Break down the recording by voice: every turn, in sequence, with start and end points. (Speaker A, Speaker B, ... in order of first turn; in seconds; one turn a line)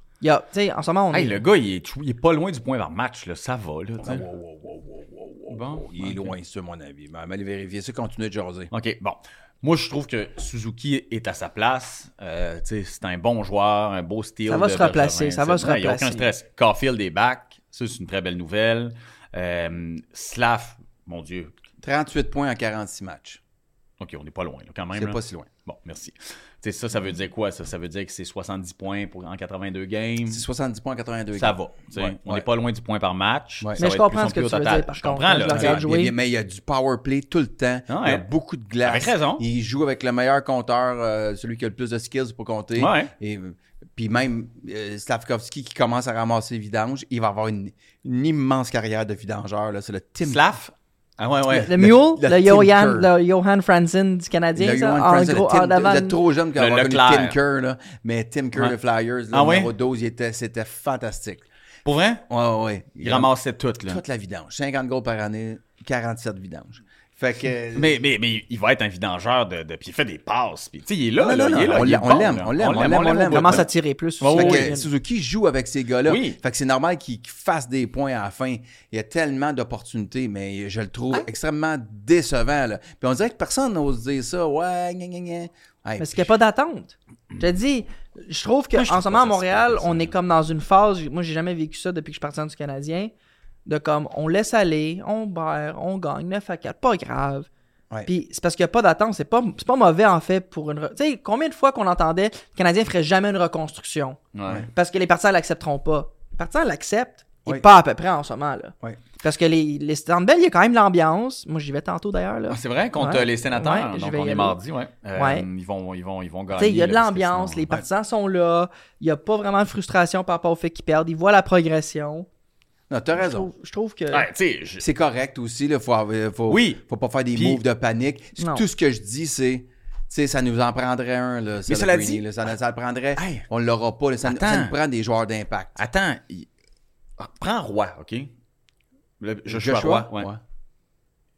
Speaker A: 0.2-1.4
Speaker B: 1.1-4.2
Speaker C: 4.0-8.7
Speaker B: 5.5-6.3
Speaker B: 8.7-21.5
Speaker A: 14.5-16.3
Speaker C: 21.8-23.4
Speaker B: 24.0-30.4
Speaker C: 24.9-25.5
Speaker C: 30.3-32.5
Speaker B: 31.3-35.8
Speaker A: 33.8-36.1
Speaker C: 35.5-50.4
Speaker B: 37.9-38.2
Speaker B: 38.8-39.4
Speaker B: 42.8-43.1
Speaker B: 50.2-51.7
Speaker C: 51.5-53.1
Speaker A: 51.5-56.2
Speaker C: 54.5-61.5
Speaker B: 56.5-57.4
Speaker B: 59.3-59.7
Speaker B: 61.8-62.2
Speaker C: 62.3-63.3
Speaker B: 63.0-64.0
Speaker C: 63.8-68.0
Speaker B: 67.7-73.7
Speaker C: 71.2-73.7
Speaker A: 73.2-74.9
Speaker B: 74.2-74.7
Speaker C: 74.3-86.3
Speaker B: 76.0-76.4
Speaker A: 86.0-93.1
Speaker B: 88.7-90.1
Speaker A: 93.7-97.5
Speaker A: 98.0-114.6
Speaker B: 104.3-104.7
Speaker B: 112.5-117.7
Speaker A: 115.2-115.5
Speaker A: 116.5-122.3
Speaker C: 122.9-123.5
Speaker A: 123.2-124.2
Speaker B: 124.1-124.8
Speaker C: 124.8-135.8
Speaker B: 126.5-126.8
Speaker B: 127.3-127.6
Speaker A: 128.4-128.6
Speaker B: 131.7-132.3
Speaker B: 133.2-133.4
Speaker B: 134.2-134.7
Speaker B: 135.8-136.5
Speaker B: 137.2-138.3
Speaker B: 139.2-140.3
Speaker C: 139.5-140.4